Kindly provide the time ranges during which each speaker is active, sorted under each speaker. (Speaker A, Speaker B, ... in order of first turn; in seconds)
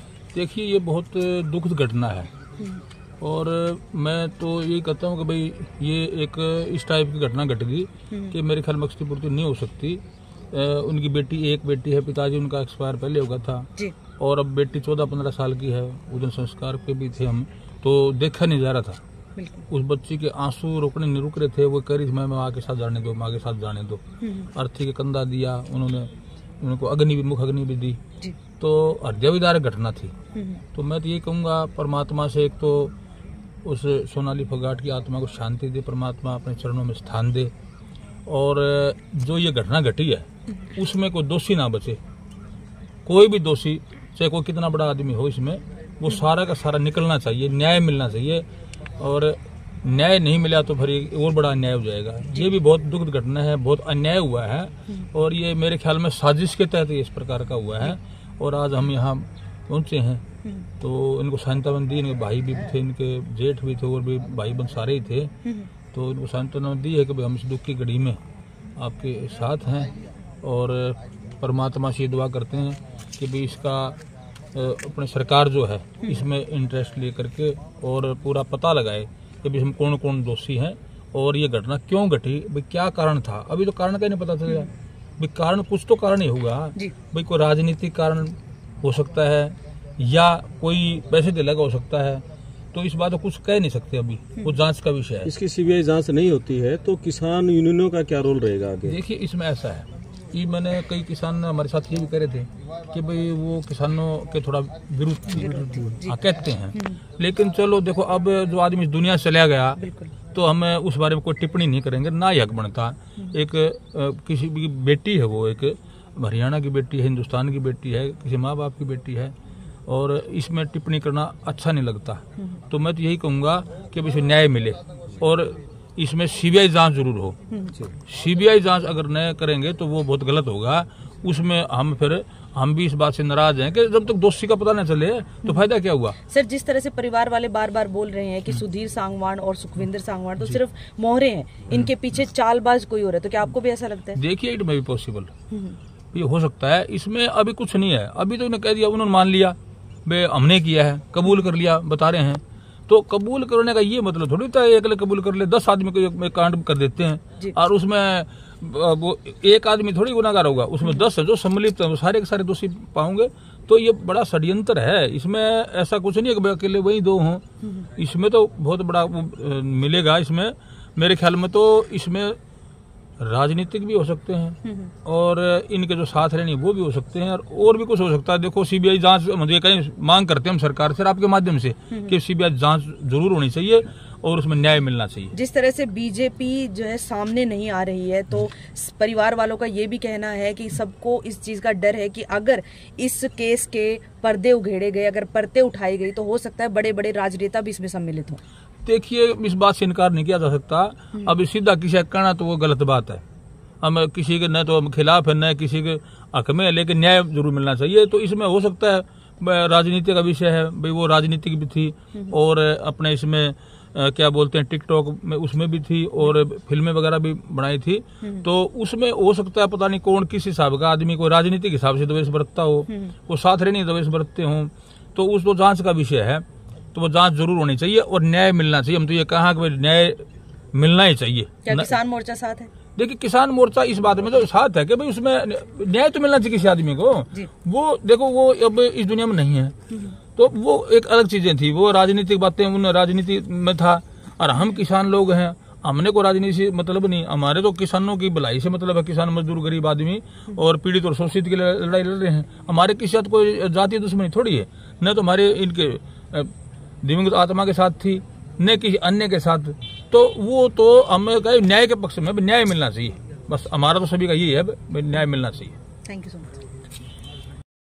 Speaker A: 0.3-2.3, 3.2-19.0, 19.7-24.0, 24.5-28.0, 28.6-30.1, 30.7-32.9, 33.6-37.5, 38.2-42.0, 43.0-48.5, 49.0-60.2, 60.8-65.3, 65.9-68.2, 68.8-74.0, 74.5-95.3, 98.8-119.3, 119.9-127.4, 128.1-136.2, 144.1-145.3, 146.1-172.4, 173.2-185.3, 198.8-203.2, 203.8-231.9, 232.9-239.7, 240.3-256.5, 257.0-265.8
Speaker B: 19.4-19.6, 24.2-24.5, 30.3-30.6, 65.4-65.7, 105.3-106.2, 109.8-110.1, 127.5-127.8, 136.2-144.2, 145.5-145.8, 174.6-174.9, 185.3-198.4, 222.9-223.1, 231.7-232.7, 266.1-266.6
Speaker C: 95.2-99.0